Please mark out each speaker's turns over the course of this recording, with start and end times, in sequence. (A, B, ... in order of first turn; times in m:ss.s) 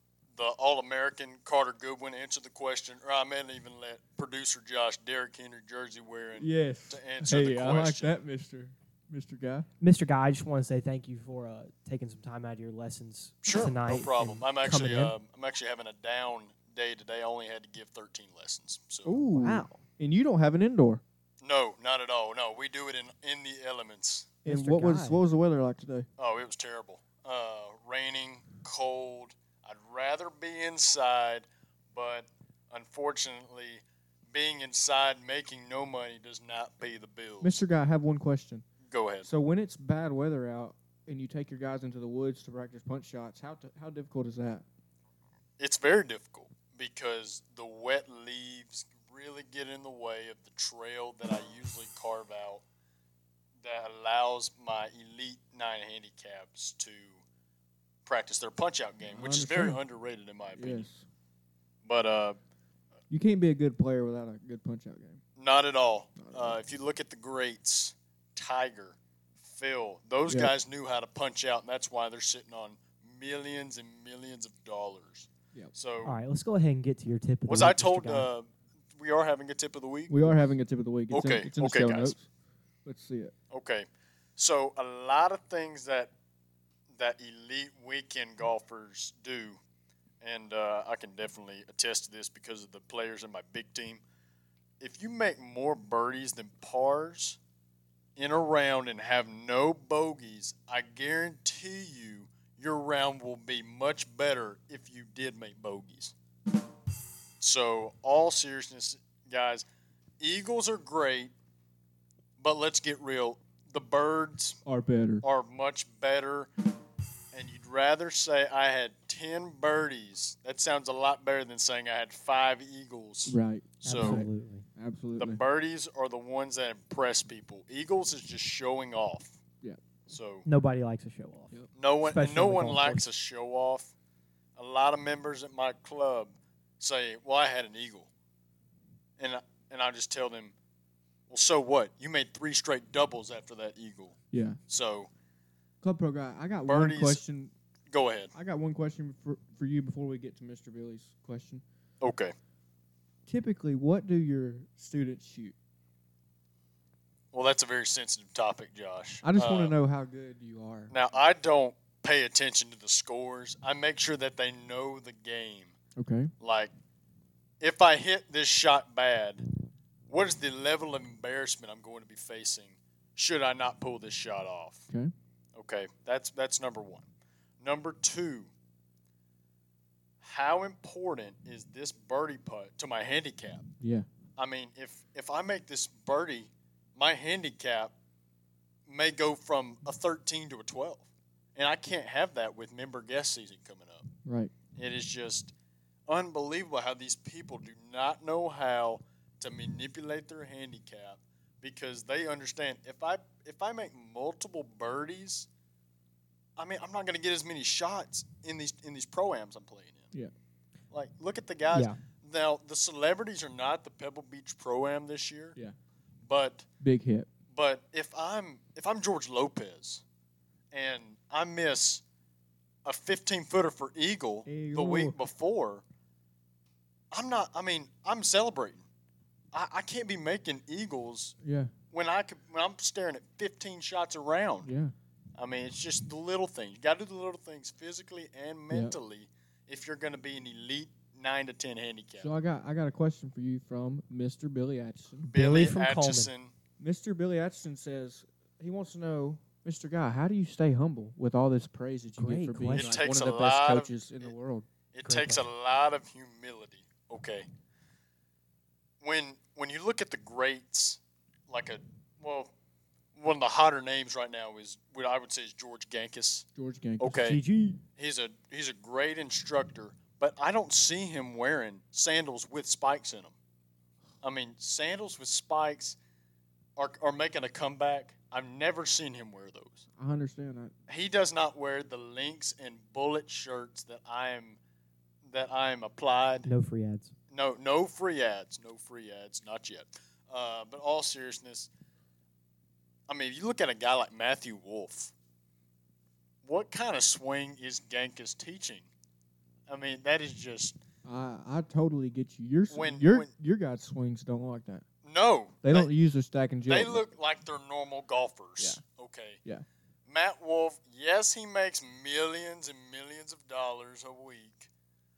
0:00.3-0:08.2 A
0:06.4-0:09.7 B
0:09.8-0:15.1 C
0:13.4-0:19.2 A
0:19.0-0:21.0 B
0:19.3-0:19.8 C
0:21.4-0:24.3 A
0:24.4-0:26.1 B
0:24.4-0:25.2 C
0:26.2-0:37.6 A
0:37.4-0:38.6 B
0:38.9-0:39.3 A
0:39.2-0:44.6 B
0:45.6-0:52.6 A
0:53.6-0:57.2 A
0:58.0-1:00.9 A
0:59.0-0:59.8 B
1:00.6-1:01.0 B
1:01.8-1:02.4 A
1:03.1-1:05.2 B
1:05.4-1:16.1 A
1:06.2-1:06.6 B
1:10.2-1:10.5 B
1:16.0-1:18.3 C
1:17.4-1:20.4 A
1:20.1-1:22.3 B
1:21.1-1:22.1 A
1:22.8-1:23.3 B
1:23.5-1:23.8 A
1:24.4-1:26.1 A
1:26.9-1:29.6 A
1:30.2-1:34.0 A
1:34.8-1:37.4 A
1:38.2-1:46.1 A
1:47.4-1:49.6 A
1:50.2-1:51.3 A
1:52.4-1:54.6 A
1:54.6-1:55.2 B
1:55.2-1:56.5 A
1:57.3-2:04.2 A
2:03.3-2:05.4 B
2:03.8-2:04.6 C
2:05.2-2:09.4 A
2:10.1-2:10.4 A
2:10.4-2:13.0 C
2:11.8-2:13.9 A
2:14.6-2:18.1 A
2:19.2-2:20.5 A
2:21.3-2:24.2 A
2:24.3-2:24.6 B
2:24.7-2:25.1 A
2:25.8-2:27.5 B
2:26.6-2:27.2 A
2:27.9-2:28.3 A
2:28.3-2:31.6 B
2:32.0-2:32.3 A
2:33.2-2:35.5 B
2:37.3-2:39.7 A
2:39.2-2:40.9 B
2:40.9-2:45.8 A
2:46.0-2:46.3 B
2:46.4-2:46.7 A
2:47.6-2:49.5 A
2:50.1-2:54.8 A
2:55.5-2:57.1 A
2:57.6-2:58.5 A
3:00.2-3:03.7 A
3:03.8-3:04.1 B
3:04.4-3:07.9 A
3:08.8-3:14.1 A
3:14.2-3:14.5 B
3:14.7-3:15.5 A
3:16.1-3:25.5 A
3:26.6-3:30.1 A
3:30.9-3:35.6 A
3:31.7-3:32.0 C
3:36.2-3:36.7 A
3:36.8-3:37.3 B
3:37.5-3:40.0 A
3:40.7-3:42.0 A
3:42.8-3:45.8 A
3:44.4-3:45.2 B
3:47.1-3:48.8 A
3:49.5-3:51.4 A
3:51.4-3:51.7 B
3:51.9-3:54.7 A
3:54.6-3:54.9 B
3:55.4-4:02.3 A
3:58.7-3:59.0 B
4:02.2-4:05.3 B
4:05.3-4:06.3 C
4:05.3-4:06.5 A
4:06.8-4:14.7 B
4:12.2-4:13.0 C
4:12.7-4:13.9 A
4:14.9-4:17.4 A
4:15.0-4:15.4 C
4:19.0-4:22.5 A
4:23.1-4:26.4 A
4:26.6-4:27.3 B
4:27.0-4:27.4 A
4:27.1-4:27.8 C
4:28.0-4:33.3 A
4:34.2-4:36.0 A
4:36.8-4:39.8 A
4:40.0-4:40.7 B
4:40.9-4:44.6 A
4:45.2-4:46.5 A
4:46.4-4:47.1 C
4:47.3-4:51.7 A
4:53.1-4:55.1 A
4:56.4-4:58.9 A
4:59.7-5:00.8 A
5:01.0-5:04.8 B
5:02.7-5:03.3 A
5:05.0-5:05.9 A
5:05.6-5:07.1 B
5:06.7-5:09.4 A
5:10.0-5:14.7 A